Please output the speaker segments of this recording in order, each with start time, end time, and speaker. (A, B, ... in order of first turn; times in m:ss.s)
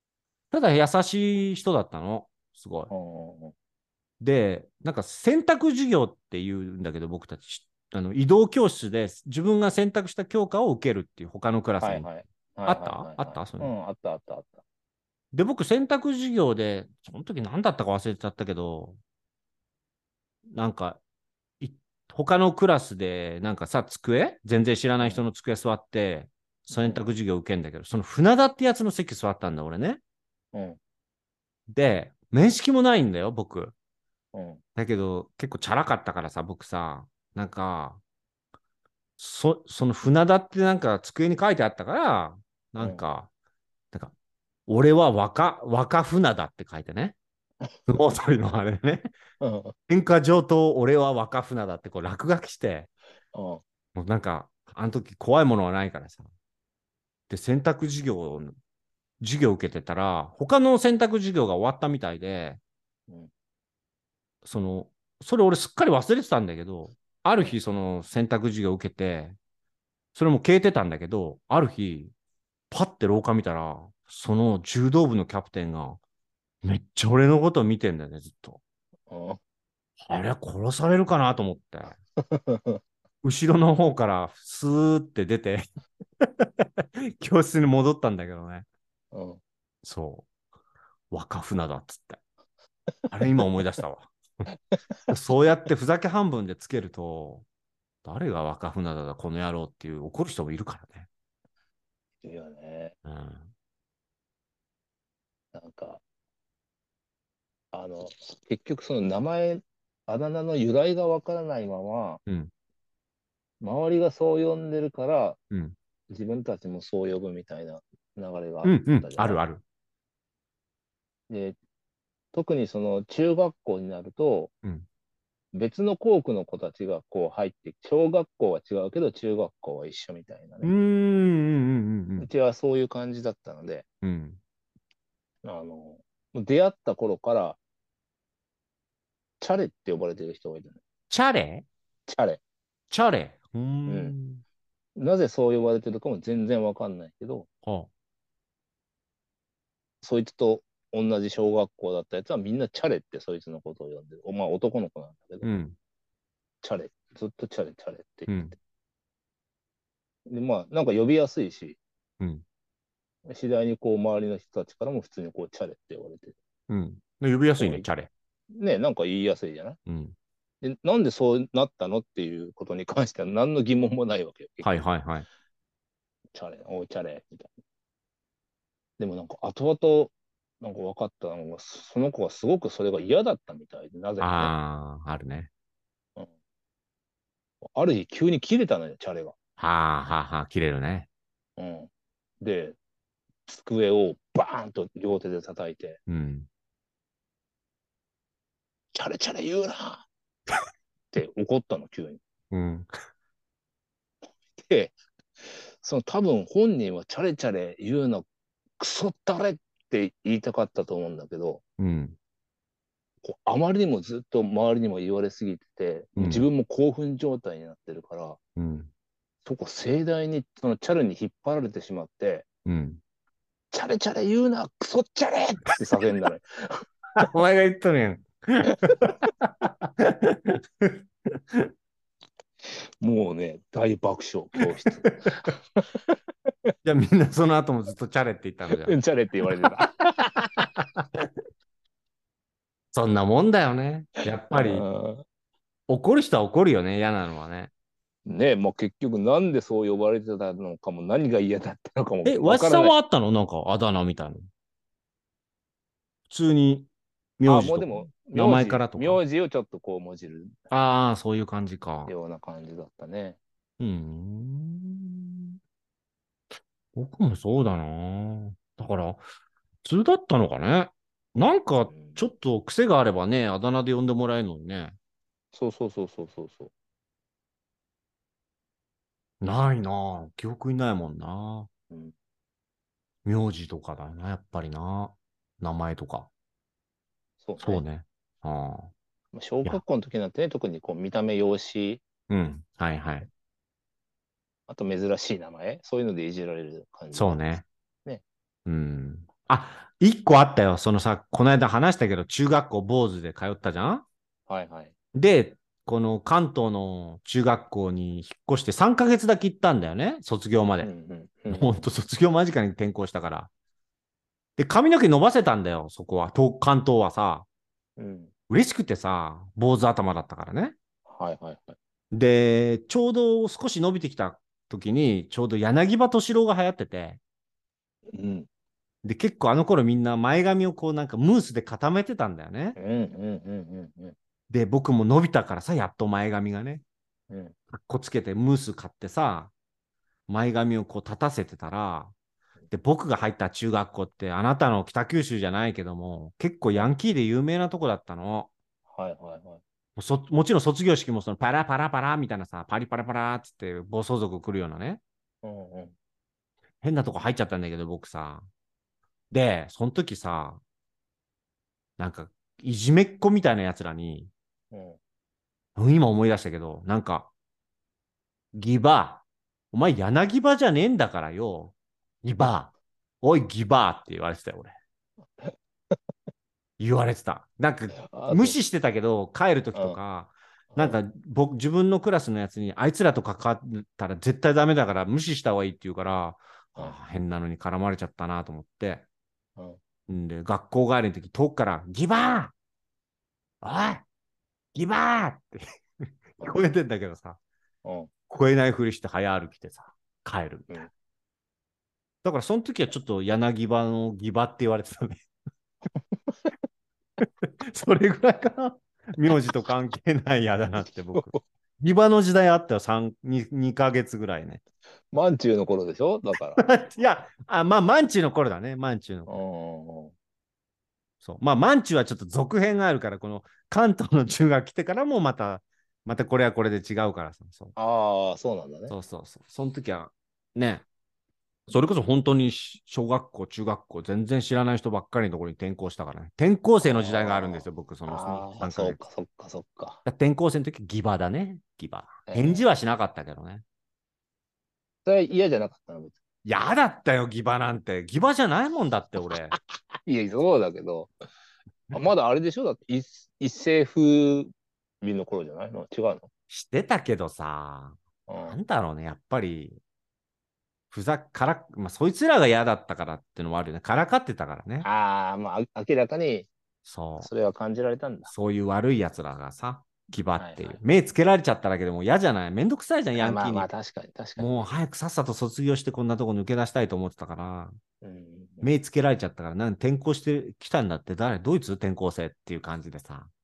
0:00.5-0:02.9 A
0:02.9-0:03.5 B
0:04.2-0:12.1 A
0:11.8-0:14.6 B
0:12.7-0:13.7 A
0:15.3-0:19.0 A
0:20.5-0:21.0 A
0:21.6-0:30.0 A
0:25.0-0:25.2 B
0:26.7-0:27.0 B
0:30.5-0:30.8 B
0:31.7-0:33.7 A
0:34.3-0:34.6 B
0:34.8-0:38.0 A
0:39.2-0:43.3 A
0:42.8-0:43.0 B
0:44.7-0:47.2 A
0:47.9-0:49.1 A
0:49.4-0:49.7 B
0:49.9-0:52.9 A
0:53.3-0:53.6 B
0:54.0-0:56.3 A
0:57.3-0:58.6 A
0:59.2-1:02.6 A
1:04.4-1:09.4 A
1:10.2-1:12.1 A
1:12.7-1:16.0 A
1:16.6-1:18.6 A
1:19.1-1:19.4 B
1:20.1-1:22.0 A
1:22.2-1:22.8 B
1:23.2-1:25.6 A
1:26.2-1:28.7 A
1:29.1-1:29.4 B
1:29.8-1:30.3 A
1:31.1-1:32.2 A
1:33.1-1:34.5 A
1:35.1-1:37.4 A
1:38.0-1:41.1 A
1:42.2-1:42.9 B
1:43.0-1:43.5 A
1:45.5-1:46.0 B
1:47.7-1:52.2 B
1:53.6-1:55.4 B
1:55.5-1:55.8 A
1:56.1-1:59.4 B
1:58.6-1:59.6 A
2:01.3-2:01.6 B
2:02.3-2:04.5 B
2:05.5-2:10.7 B
2:10.6-2:12.3 A
2:12.2-2:13.8 B
2:14.0-2:14.4 A
2:15.4-2:17.6 B
2:19.4-2:20.8 B
2:21.1-2:21.7 A
2:22.1-2:22.4 B
2:22.9-2:24.4 A
2:23.9-2:24.2 B
2:25.0-2:27.5 B
2:27.6-2:27.9 A
2:30.0-2:35.5 B
2:35.4-2:35.8 A
2:36.6-2:38.6 B
2:38.3-2:38.6 A
2:40.3-2:41.8 B
2:43.3-2:46.4 B
2:46.7-2:48.1 A
2:47.6-2:47.9 B
2:48.5-2:49.8 B
2:49.9-2:50.2 A
2:50.6-2:54.7 B
2:54.6-2:55.3 A
2:56.3-2:57.5 B
2:59.0-3:04.5 B
3:04.2-3:05.5 A
3:07.6-3:09.4 B
3:09.6-3:11.1 A
3:11.6-3:11.9 B
3:12.4-3:12.8 B
3:13.5-3:16.0 B
3:16.1-3:16.5 A
3:18.9-3:20.1 B
3:21.1-3:22.2 B
3:22.5-3:22.9 A
3:24.6-3:25.0 B
3:25.5-3:28.3 B
3:28.8-3:31.6 B
3:31.8-3:32.2 A
3:33.2-3:38.4 B
3:36.2-3:36.5 A
3:38.6-3:38.9 A
3:39.4-3:42.5 B
3:42.7-3:43.0 A
3:43.7-3:46.8 B
3:47.2-3:51.7 A
3:52.7-3:56.7 B
3:55.0-3:55.4 A
3:56.8-3:59.0 A
3:58.8-4:00.6 B
4:00.6-4:01.3 A
4:02.9-4:04.9 A
4:04.5-4:05.2 B
4:05.9-4:07.7 A
4:08.3-4:12.9 B
4:12.2-4:14.5 A
4:16.3-4:19.2 A
4:17.4-4:20.6 B
4:20.7-4:22.1 A
4:22.1-4:23.4 B
4:23.8-4:25.6 A
4:27.0-4:29.2 A
4:29.8-4:35.0 A
4:31.9-4:32.3 B
4:35.5-4:36.7 B
4:39.4-4:41.7 A
4:43.3-4:46.3 A
4:47.4-4:47.8 B
4:47.6-4:48.9 A
4:49.3-4:52.0 B
4:52.3-4:53.3 A
4:54.7-4:57.5 B
4:57.1-4:57.6 A
4:58.7-5:04.0 A
5:04.5-5:04.9 B
5:05.1-5:10.9 A
5:10.8-5:11.9 B
5:11.5-5:13.5 A
5:14.6-5:17.5 A
5:18.0-5:18.3 B
5:18.5-5:20.8 A
5:21.1-5:21.8 B
5:22.1-5:27.2 A
5:28.1-5:28.5 B
5:29.0-5:32.8 A
5:32.8-5:34.2 B
5:34.5-5:36.8 A
5:37.7-5:39.5 A
5:40.3-5:42.1 A
5:42.7-5:48.5 A
5:48.9-5:49.6 B
5:50.0-5:55.0 A
5:55.4-5:55.9 B
5:56.8-5:58.5 A
5:59.3-6:00.6 A
6:02.0-6:04.3 A
6:04.7-6:05.0 B
6:05.8-6:07.3 A
6:08.5-6:14.7 A
6:16.8-6:29.0 A
6:18.0-6:18.6 B
6:20.7-6:21.0 B
6:30.1-6:32.5 A
6:33.6-6:34.0 A
6:34.8-6:37.4 A
6:37.8-6:38.1 B
6:38.3-6:40.8 A
6:42.2-6:45.2 A
6:46.0-6:46.5 B
6:47.2-6:54.6 A
6:51.2-6:51.4 B
6:55.1-6:56.9 B
6:56.6-6:59.4 A
6:59.3-7:00.1 B
7:01.2-7:07.8 A
7:07.8-7:08.9 B
7:08.9-7:10.8 A
7:11.7-7:19.0 A
7:16.8-7:20.0 B
7:20.0-7:23.6 A
7:22.3-7:22.6 B
7:25.0-7:26.2 B
7:26.4-7:29.6 A
7:30.0-7:31.1 B
7:31.9-7:36.3 B
7:36.5-7:39.8 A
7:38.3-7:38.6 B
7:40.9-7:44.9 A
7:44.8-7:46.5 B
7:46.8-7:47.3 A
7:47.2-7:48.3 B
7:48.3-7:53.7 A
7:50.4-7:50.8 B
7:53.2-7:54.7 B
7:54.4-7:57.8 A
7:58.0-7:58.7 B
7:58.6-8:03.3 A